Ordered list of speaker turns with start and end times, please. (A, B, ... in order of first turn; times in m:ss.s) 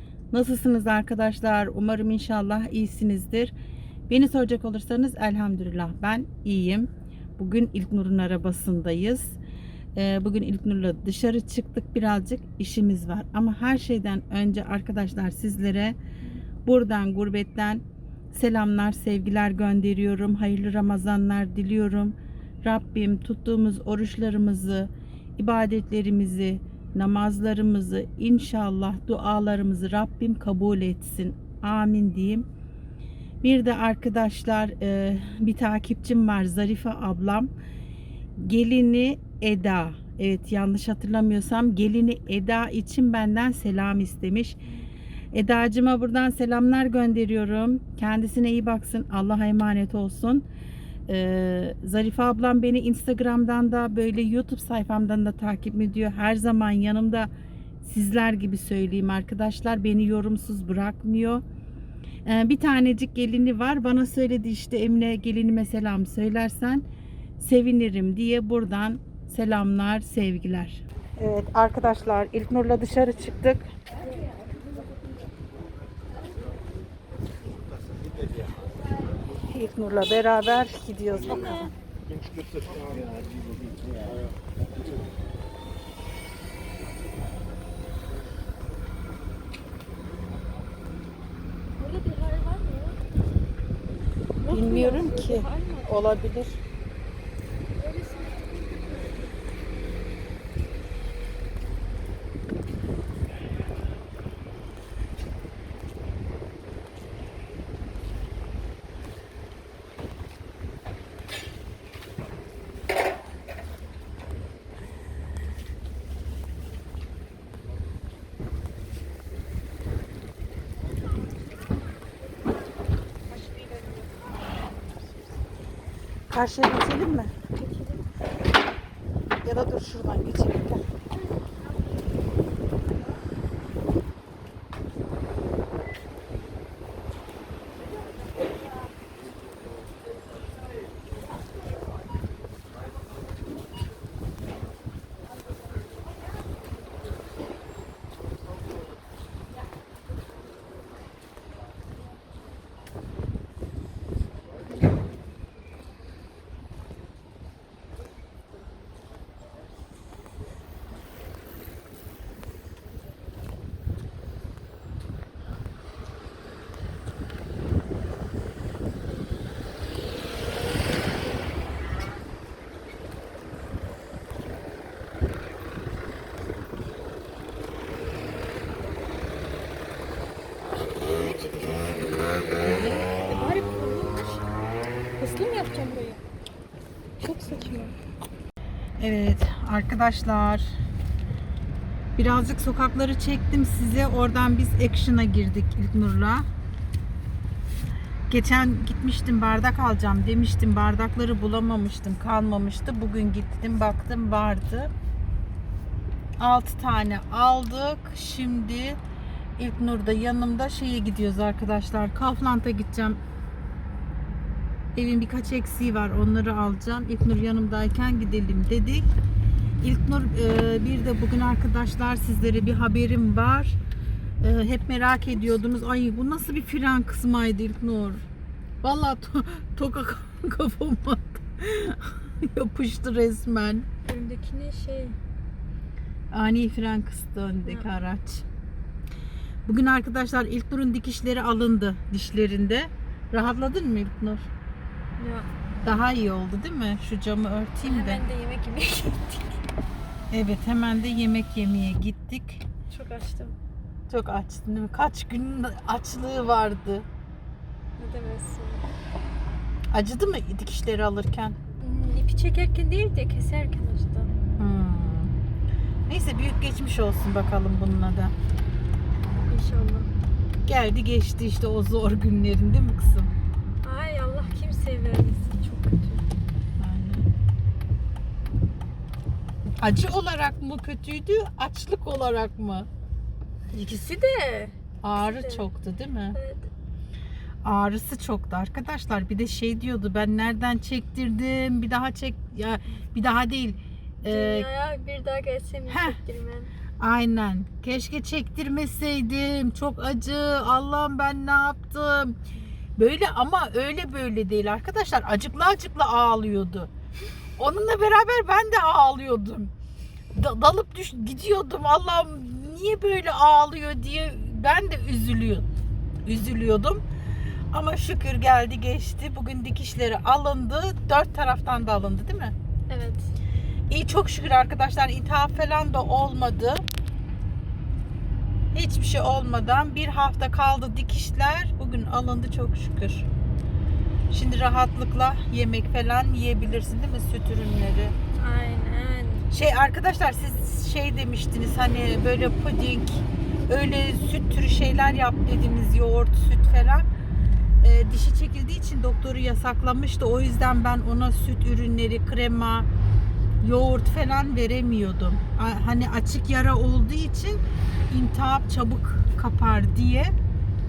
0:00.3-0:03.5 A
0:04.1-0:09.4 A
0:09.9-0:16.0 A
0:16.6-0:32.4 A
0:33.4-0:37.5 A
0:38.4-0:44.6 A
0:45.3-0:50.4 A
0:51.1-0:57.3 A
0:57.8-1:01.4 A
1:02.2-1:06.8 A
1:07.4-1:13.7 A
1:19.5-1:21.7 A
1:21.3-1:21.7 B
1:31.8-1:33.0 B
1:34.4-1:36.2 B
1:34.5-1:36.6 A
1:37.8-1:38.5 B
2:03.3-2:05.2 B
2:06.3-2:07.3 A
2:07.5-2:08.0 B
2:09.4-2:10.9 A
3:00.9-3:01.9 B
3:02.6-3:03.0 A
3:03.0-3:04.4 B
3:05.2-3:06.2 B
3:07.2-3:08.0 B
3:09.0-3:10.7 A
3:12.2-3:16.4 A
3:18.3-3:24.9 A
3:26.4-3:29.0 A
3:29.6-3:33.2 A
3:34.9-3:39.0 A
3:39.8-3:43.8 A
3:44.4-3:48.2 A
3:48.8-3:53.9 A
3:54.0-3:55.2 B
3:56.3-3:58.4 A
3:59.6-4:04.5 A
4:05.2-4:05.5 B
4:05.8-4:08.2 A
4:07.8-4:09.6 B
4:10.3-4:12.6 A
4:12.9-4:13.6 B
4:14.1-4:17.1 A
4:18.0-4:18.9 B
4:19.9-4:21.6 A
4:21.8-4:24.3 B
4:24.6-4:25.4 A
4:26.1-4:28.3 A
4:29.5-4:30.1 B
4:30.6-4:33.3 A
4:33.8-4:36.2 B
4:36.8-4:37.3 A
4:39.8-4:42.9 A
4:43.7-4:45.7 B
4:45.0-4:46.4 A
4:46.3-4:46.7 B
4:47.6-4:54.7 A
4:54.2-4:56.7 B
4:55.9-4:56.2 A
4:57.0-5:02.4 A
5:03.0-5:06.9 A
5:07.6-5:09.7 A
5:10.3-5:15.7 A
5:16.2-5:17.0 A
5:17.7-5:22.5 A
5:22.9-5:23.3 B
5:23.9-5:26.8 A
5:28.7-5:33.3 A
5:34.3-5:38.1 A
5:38.4-5:39.5 B
5:39.5-5:47.0 A
5:47.8-5:52.9 A
5:53.6-6:00.3 A